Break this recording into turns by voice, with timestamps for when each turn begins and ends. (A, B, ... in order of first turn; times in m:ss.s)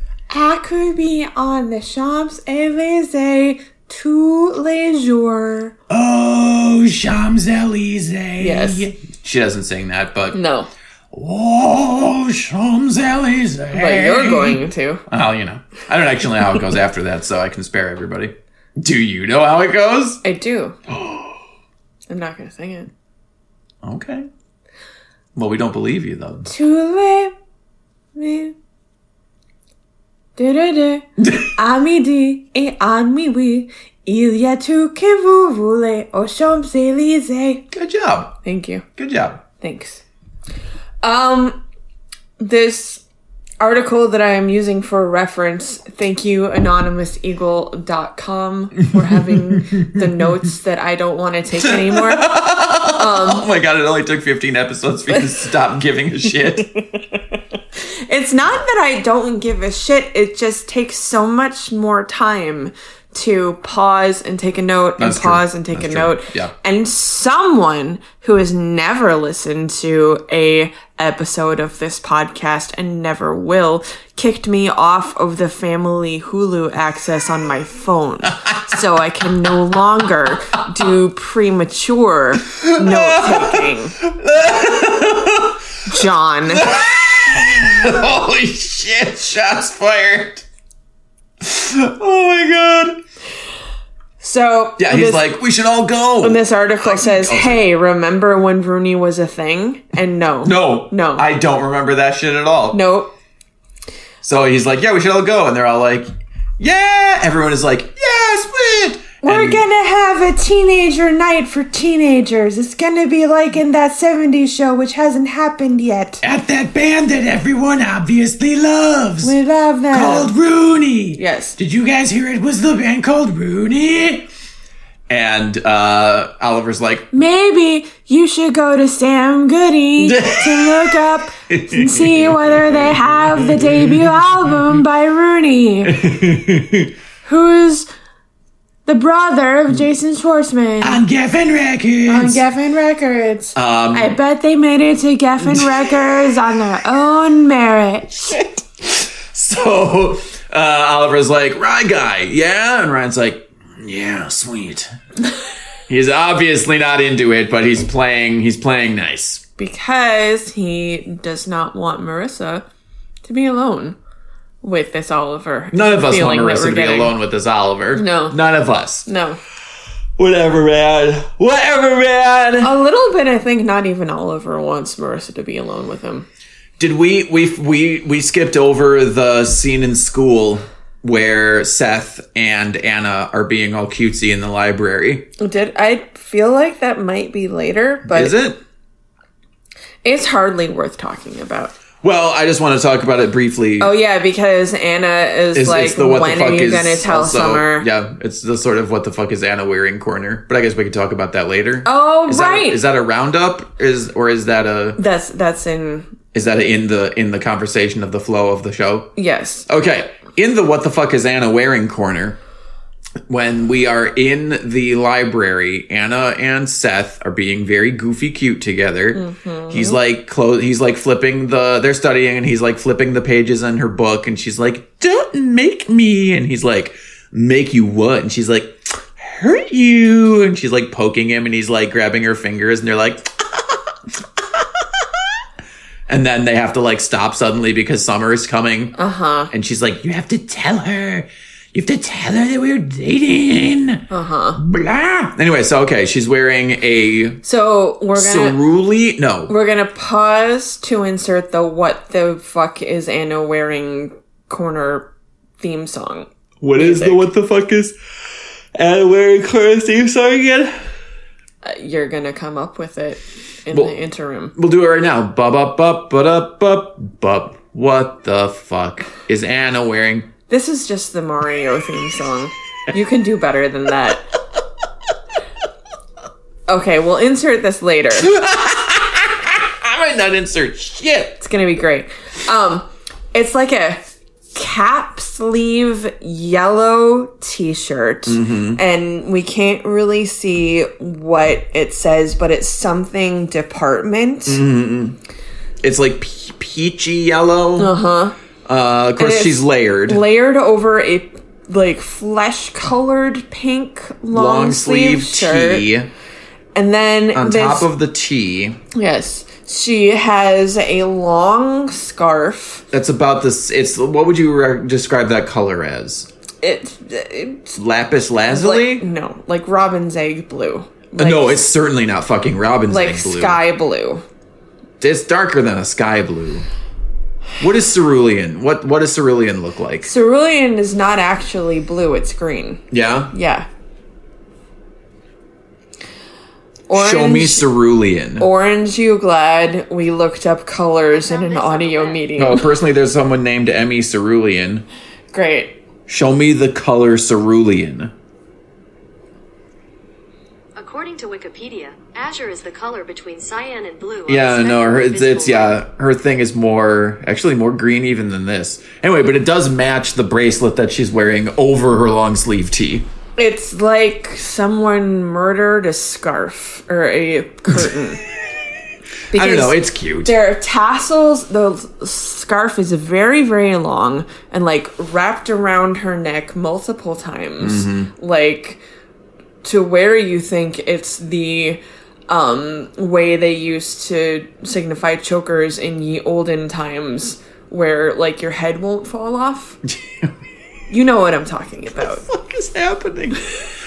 0:00.3-0:05.8 A
0:05.9-0:10.4 B
0:08.4-0:08.9 A
0:10.3-0:10.7 A
0:11.1-0:20.2 B
0:13.8-0:15.0 A
0:20.2-0:20.8 A
0:20.9-0:21.4 B
0:22.1-0:22.9 A
0:23.8-0:24.3 B
0:25.3-0:26.5 B
0:26.4-0:27.3 A
0:28.1-0:28.5 A
0:30.4-0:37.6 A
0:31.2-0:31.5 B
0:37.7-0:38.4 B
0:38.4-0:38.8 A
0:39.0-0:39.4 B
0:39.6-0:40.0 A
0:41.0-0:41.6 A
0:42.4-0:43.0 A
0:43.6-0:53.5 A
0:49.3-0:49.9 B
0:51.6-0:56.8 B
0:58.1-1:24.0 A
1:05.0-1:06.5 B
1:22.6-1:25.6 B
1:25.9-1:26.7 A
1:26.5-1:30.4 B
1:31.4-1:33.0 B
1:34.2-1:35.2 A
1:34.8-1:37.6 B
1:36.2-1:41.3 A
1:40.4-1:42.8 B
1:42.7-1:43.1 A
1:44.2-1:49.6 B
1:49.2-1:56.2 A
1:56.2-1:59.3 B
1:59.2-2:00.3 A
1:59.9-2:04.2 B
2:01.2-2:01.6 A
2:05.1-2:07.1 B
2:07.1-2:16.0 A
2:10.0-2:14.8 B
2:15.8-2:16.9 B
2:17.2-2:17.9 A
2:18.8-2:21.0 A
2:20.8-2:22.4 B
2:22.1-2:28.4 A
2:23.5-2:24.2 B
2:25.5-2:26.0 B
2:28.3-2:34.9 B
2:35.9-2:39.4 B
2:39.6-2:42.6 A
2:43.2-2:44.0 A
2:44.6-2:47.1 A
2:45.7-2:49.1 B
2:47.9-2:48.4 A
2:49.0-2:49.4 A
2:50.2-2:52.7 B
2:52.6-2:56.2 A
2:56.8-3:05.3 B
3:05.4-3:08.4 A
3:08.1-3:08.6 B
3:10.0-3:11.7 A
3:12.0-3:13.9 B
3:13.8-3:17.9 A
3:15.5-3:25.0 B
3:21.8-3:22.8 A
3:25.0-3:26.1 A
3:26.3-3:29.1 B
3:29.2-3:29.7 A
3:29.7-3:32.4 B
3:33.3-3:55.2 B
3:39.1-3:40.0 A
3:56.1-3:58.9 B
3:58.9-3:59.5 A
3:59.5-4:04.0 B
4:04.1-4:04.6 A
4:04.6-4:07.4 B
4:07.4-4:08.6 A
4:08.1-4:09.5 B
4:09.5-4:17.2 A
4:16.6-4:17.9 B
4:18.8-4:20.8 B
4:21.6-4:24.5 A
4:23.7-4:30.3 B
4:30.5-4:34.3 A
4:36.7-4:38.3 A
4:38.2-4:41.4 B
4:41.4-4:54.6 A
4:48.3-4:48.8 B
4:54.5-4:55.2 B
4:55.8-4:57.9 B
4:57.8-4:58.3 A
4:58.6-5:00.2 B
4:59.2-5:05.8 A
5:04.3-5:06.1 B
5:06.8-5:07.9 A
5:07.3-5:08.8 B
5:08.9-5:12.8 A
5:12.9-5:16.3 B
5:16.6-5:17.7 A
5:17.7-5:19.1 B
5:18.5-5:21.7 A
5:21.2-5:23.6 B
5:22.9-5:24.2 A
5:25.0-5:26.6 B
5:27.6-5:30.1 B
5:30.0-5:33.7 A
5:32.9-5:33.3 B
5:36.9-5:37.7 A
5:36.9-5:38.5 B
5:38.4-5:42.6 A
5:41.1-5:42.2 C
5:42.4-5:44.8 B
5:45.3-5:45.8 A
5:46.1-5:48.1 B
5:50.8-5:55.8 C
5:54.3-6:03.0 B
6:03.4-6:08.2 A
6:09.3-6:18.8 A
6:09.3-6:10.3 B
6:17.6-6:18.1 B
6:19.6-6:29.8 A
6:29.8-6:30.3 B
6:30.9-6:32.2 A
6:32.0-6:33.5 B